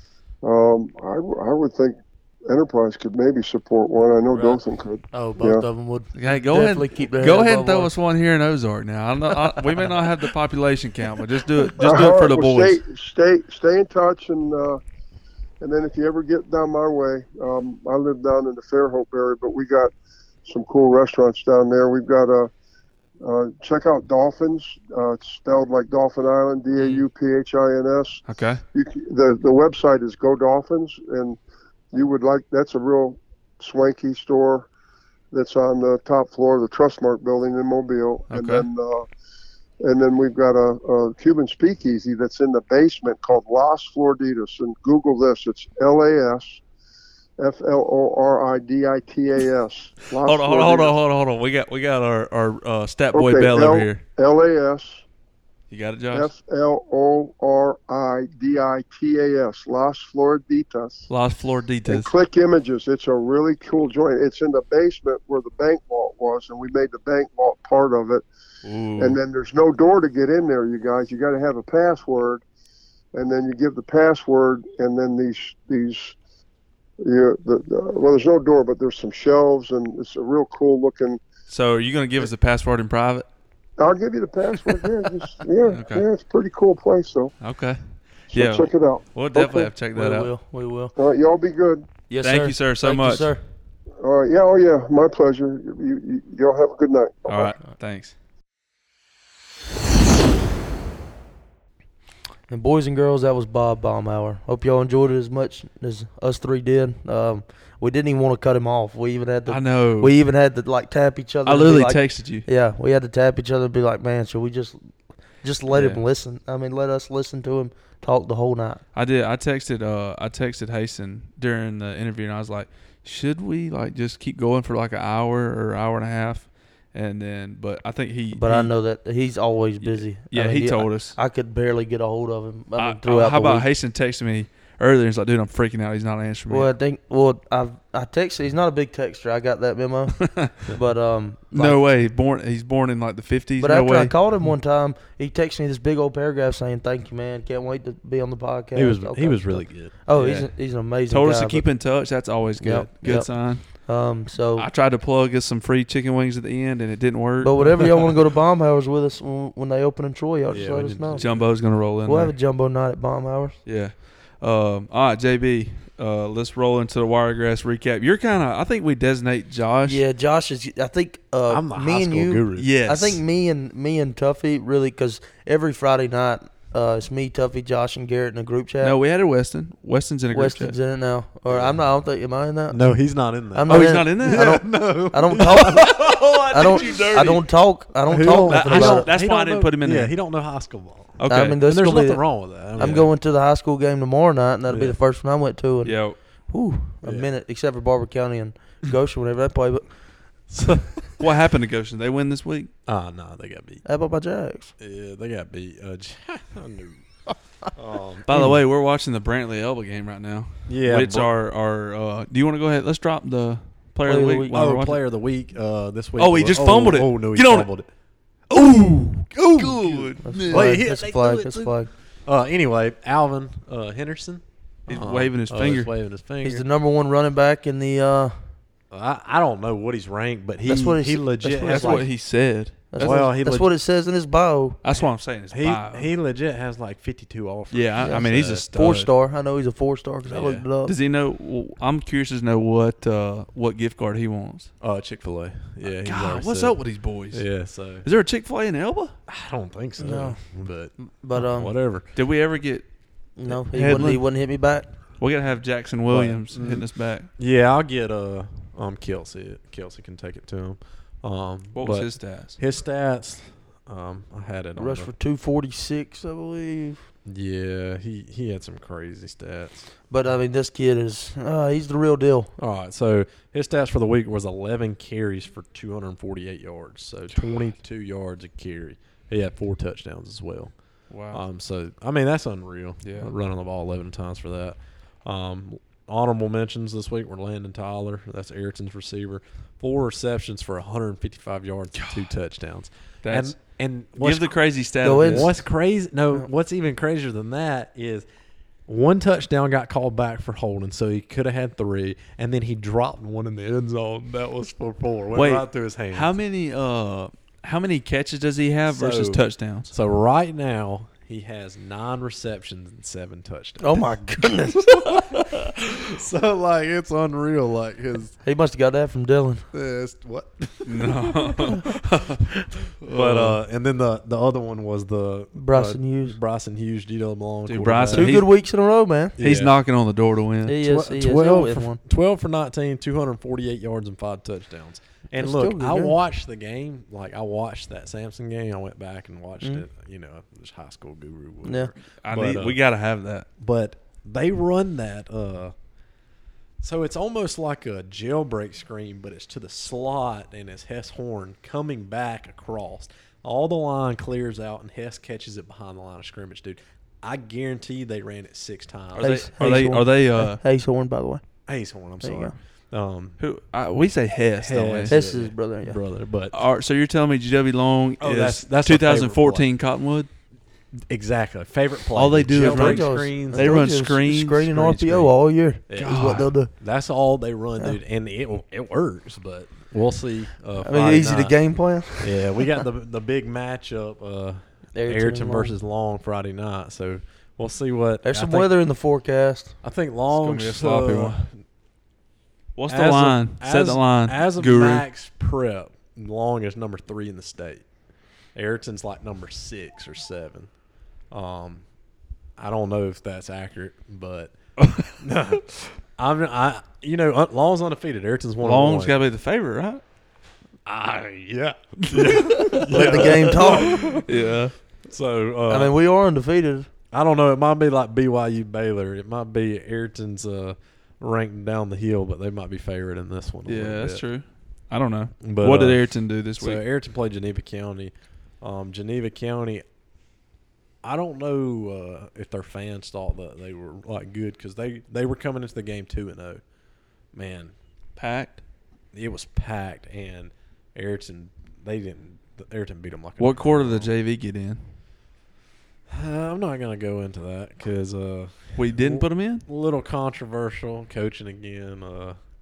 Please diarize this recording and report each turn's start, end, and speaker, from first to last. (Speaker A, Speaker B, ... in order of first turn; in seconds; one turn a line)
Speaker A: 0.4-5.7
Speaker B: 5.1-7.9
Speaker C: 6.1-12.8
Speaker B: 9.6-9.9
Speaker A: 11.8-14.8
Speaker A: 15.6-19.9
Speaker A: 20.4-22.5
Speaker A: 23.2-28.2
Speaker C: 28.3-28.6
Speaker A: 28.7-31.4
Speaker A: 31.9-34.7
Speaker A: 35.3-39.1
Speaker C: 38.3-38.7
Speaker A: 39.8-46.6
Speaker A: 47.4-51.0
Speaker C: 50.2-54.0
Speaker A: 53.1-55.0
Speaker C: 55.7-56.3
Speaker A: 56.1-61.1
Speaker C: 61.1-62.1
Speaker A: 61.9-68.2
Speaker C: 68.6-69.2
Speaker A: 69.0-72.4
Speaker A: 73.1-76.2
Speaker A: 77.0-81.2
Speaker C: 81.5-83.3
Speaker A: 83.8-87.3
Speaker C: 85.7-86.1
Speaker C: 87.4-90.3
Speaker A: 88.3-89.0
Speaker B: 89.3-91.0
Speaker A: 91.0-91.9
Speaker B: 92.1-93.4
Speaker C: 92.2-93.3
Speaker A: 94.0-97.5
Speaker C: 97.3-98.1
Speaker B: 102.5-118.8
Speaker C: 109.5-110.1
Speaker C: 111.5-112.5
Speaker C: 115.7-116.0
Speaker C: 118.9-128.7
Speaker B: 128.3-133.7
Speaker C: 129.8-131.2
Speaker C: 132.8-136.7
Speaker B: 136.5-141.9
Speaker C: 140.2-140.6
Speaker C: 141.5-144.1
Speaker B: 143.6-151.7
Speaker D: 148.7-149.9
Speaker C: 150.1-153.9
Speaker B: 152.6-154.7
Speaker C: 154.6-158.1
Speaker B: 157.4-163.6
Speaker D: 160.5-161.5
Speaker C: 161.2-162.3
Speaker C: 163.7-170.0
Speaker B: 169.8-178.9
Speaker D: 171.5-172.7
Speaker C: 172.6-173.2
Speaker C: 178.8-180.8
Speaker B: 180.3-189.1
Speaker D: 181.5-181.8
Speaker D: 182.7-187.1
Speaker C: 183.7-184.7
Speaker C: 185.9-187.4
Speaker D: 188.1-193.1
Speaker C: 188.5-190.1
Speaker C: 191.2-191.6
Speaker B: 191.3-200.5
Speaker D: 194.7-195.0
Speaker C: 195.8-196.2
Speaker D: 197.0-197.3
Speaker D: 200.5-201.2
Speaker C: 201.2-202.7
Speaker D: 202.9-203.8
Speaker B: 203.8-204.7
Speaker D: 204.8-207.1
Speaker D: 207.7-208.6
Speaker C: 208.3-215.0
Speaker D: 210.7-211.3
Speaker B: 214.1-214.5
Speaker D: 214.5-217.9
Speaker C: 216.2-217.7
Speaker C: 218.5-220.8
Speaker D: 219.3-226.6
Speaker B: 220.2-221.9
Speaker C: 224.9-225.9
Speaker B: 226.4-228.5
Speaker D: 228.9-232.1
Speaker B: 230.6-232.1
Speaker C: 231.6-233.3
Speaker B: 232.9-234.9
Speaker D: 233.0-233.7
Speaker C: 234.8-236.1
Speaker D: 235.5-238.7
Speaker C: 237.7-239.1
Speaker B: 238.0-240.9
Speaker D: 240.3-240.6
Speaker C: 240.8-244.7
Speaker D: 244.8-248.1
Speaker C: 245.8-249.2
Speaker D: 249.3-252.1
Speaker B: 250.0-251.7
Speaker C: 252.1-252.9
Speaker B: 253.4-254.9
Speaker C: 253.4-254.2
Speaker C: 255.2-257.3
Speaker D: 256.1-265.1
Speaker C: 261.7-262.6
Speaker B: 264.8-267.1
Speaker D: 267.3-269.9
Speaker B: 270.1-272.5
Speaker D: 272.6-298.3
Speaker C: 281.1-281.4
Speaker C: 283.0-283.3
Speaker C: 291.9-292.3
Speaker C: 293.2-295.6
Speaker B: 295.0-295.6
Speaker D: 298.9-306.3
Speaker C: 305.3-309.9
Speaker D: 308.9-315.2
Speaker B: 313.8-315.4
Speaker D: 315.9-318.4
Speaker B: 318.4-319.7
Speaker D: 319.7-321.9
Speaker C: 320.9-322.4
Speaker C: 323.0-323.6
Speaker D: 323.1-328.4
Speaker B: 325.6-326.4
Speaker C: 327.7-328.5
Speaker B: 328.1-329.4
Speaker D: 329.4-329.8
Speaker C: 329.4-330.8
Speaker B: 330.7-332.0
Speaker D: 330.8-342.8
Speaker B: 335.4-336.2
Speaker B: 341.6-341.9
Speaker C: 342.2-343.5
Speaker D: 343.6-345.8
Speaker D: 346.8-359.3
Speaker C: 359.1-360.6
Speaker B: 359.2-361.4
Speaker D: 361.7-363.4
Speaker B: 362.2-362.6
Speaker C: 363.4-365.2
Speaker D: 364.6-366.6
Speaker B: 365.1-366.0
Speaker C: 366.5-370.3
Speaker D: 368.2-369.7
Speaker D: 371.1-373.9
Speaker C: 372.1-375.0
Speaker B: 372.6-376.7
Speaker D: 374.8-375.3
Speaker D: 375.9-381.6
Speaker C: 375.9-376.5
Speaker B: 380.8-382.7
Speaker D: 382.2-388.7
Speaker B: 384.9-385.8
Speaker B: 388.2-389.8
Speaker D: 389.8-391.6
Speaker C: 390.3-391.4
Speaker C: 392.8-395.1
Speaker D: 392.9-397.9
Speaker D: 398.5-400.8
Speaker D: 401.3-401.8
Speaker D: 402.6-404.5
Speaker C: 404.8-405.1
Speaker D: 405.1-409.2
Speaker C: 408.6-410.0
Speaker D: 410.9-414.4
Speaker C: 412.0-414.7
Speaker B: 412.9-414.2
Speaker D: 415.1-415.9
Speaker B: 415.7-416.9
Speaker D: 417.1-424.2
Speaker C: 423.7-426.8
Speaker D: 425.4-429.9
Speaker D: 431.0-436.6
Speaker D: 437.3-437.7
Speaker C: 438.2-438.6
Speaker D: 439.1-444.1
Speaker C: 443.4-444.8
Speaker D: 446.1-452.4
Speaker C: 448.8-449.6